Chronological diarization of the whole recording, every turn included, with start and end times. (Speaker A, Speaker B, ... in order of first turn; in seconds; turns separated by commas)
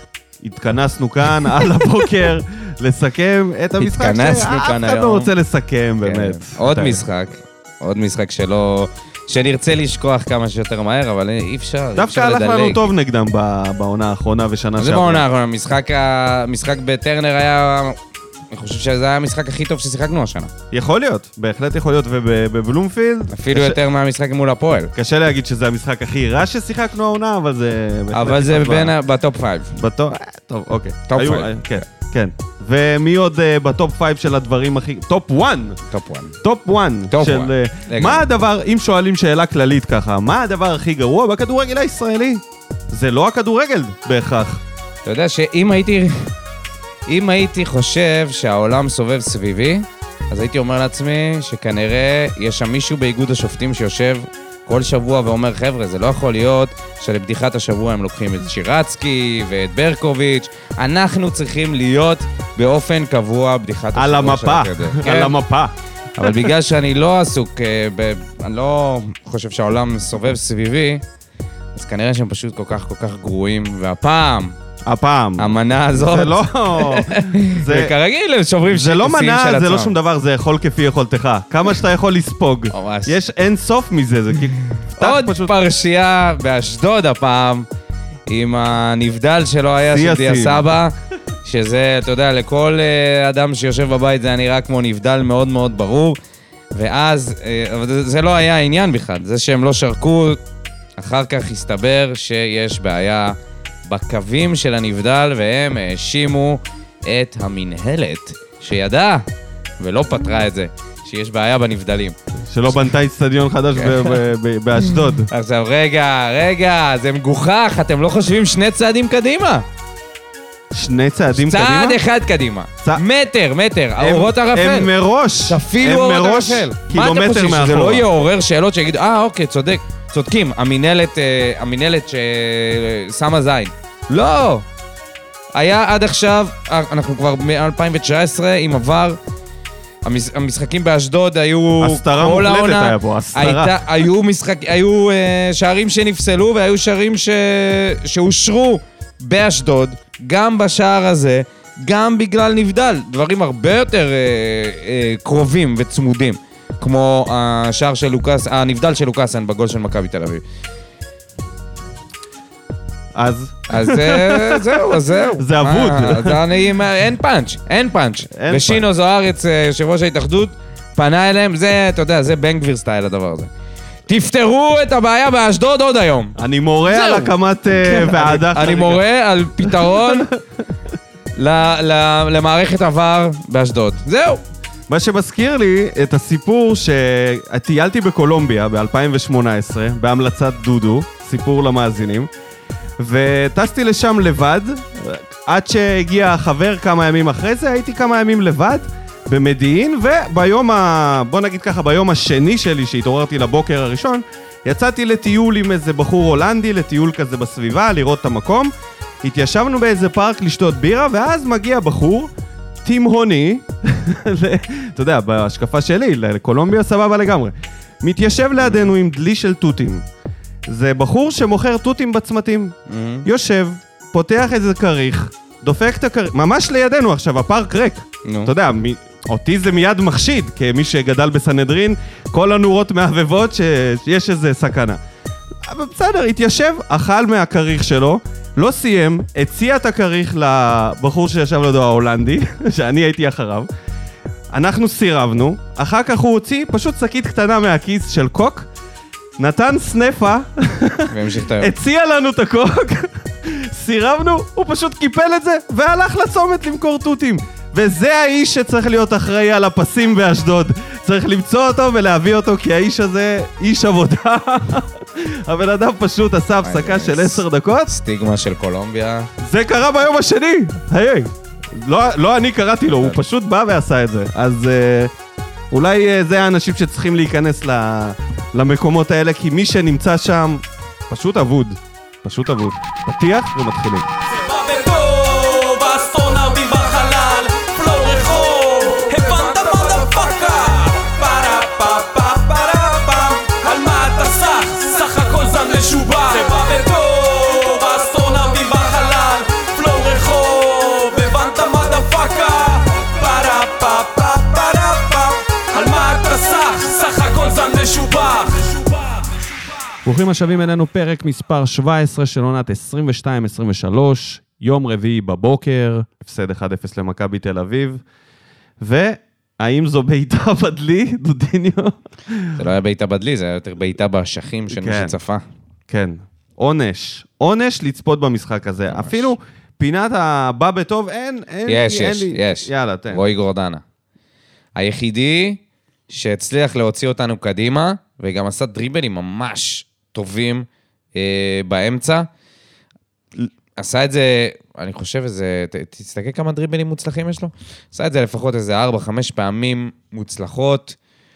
Speaker A: 0.4-7.0, Speaker B: 3.8-5.3, Speaker B: 6.0-12.9, Speaker A: 11.9-15.2, Speaker B: 14.8-18.0, Speaker B: 18.5-20.5, Speaker A: 20.7-23.8, Speaker B: 23.3-24.9, Speaker A: 24.9-28.9, Speaker B: 28.1-29.8, Speaker A: 29.8-35.8, Speaker B: 31.1-31.8, Speaker B: 35.9-36.4, Speaker A: 36.4-44.6, Speaker B: 37.1-38.3, Speaker B: 45.0-46.3, Speaker B: 47.1-65.3, Speaker A: 63.9-65.7, Speaker B: 66.2-71.0, Speaker B: 71.7-74.5, Speaker A: 74.8-77.9, Speaker B: 75.4-79.9, Speaker A: 78.7-85.5, Speaker B: 82.7-83.1, Speaker B: 84.9-87.7, Speaker B: 88.3-96.2, Speaker A: 89.9-90.6, Speaker B: 96.7-100.4, Speaker B: 101.0-103.3, Speaker B: 103.9-109.2, Speaker B: 109.8-112.2, Speaker A: 112.5-115.3, Speaker B: 113.7-114.2, Speaker B: 115.3-119.7, Speaker A: 120.7-122.0, Speaker B: 121.3-124.9, Speaker A: 124.0-128.1, Speaker B: 125.5-134.7, Speaker B: 135.5-139.2, Speaker B: 140.0-160.4, Speaker A: 141.8-143.8, Speaker A: 163.1-166.4, Speaker B: 163.7-173.5, Speaker A: 168.3-168.8, Speaker B: 174.1-176.4, Speaker A: 176.4-179.0, Speaker B: 176.9-180.3, Speaker A: 179.6-180.4, Speaker B: 181.4-184.4, Speaker A: 184.9-192.3, Speaker A: 193.0-208.7, Speaker A: 209.2-212.3, Speaker A: 212.8-220.0, Speaker A: 220.7-235.0, Speaker B: 222.9-223.3, Speaker B: 228.2-228.5, Speaker A: 235.6-243.7, Speaker A: 244.5-248.7, Speaker A: 249.4-267.9, Speaker B: 251.1-251.7, Speaker B: 266.6-269.3, Speaker A: 269.4-275.1, Speaker A: 275.7-284.1, Speaker C: 284.4-308.9, Speaker A: 289.1-290.2, Speaker A: 310.0-318.0, Speaker A: 318.8-322.6, Speaker B: 322.6-325.4, Speaker A: 324.7-325.1, Speaker A: 325.9-333.2, Speaker B: 328.9-329.3, Speaker B: 331.7-333.8, Speaker B: 334.8-342.3, Speaker B: 343.8-350.9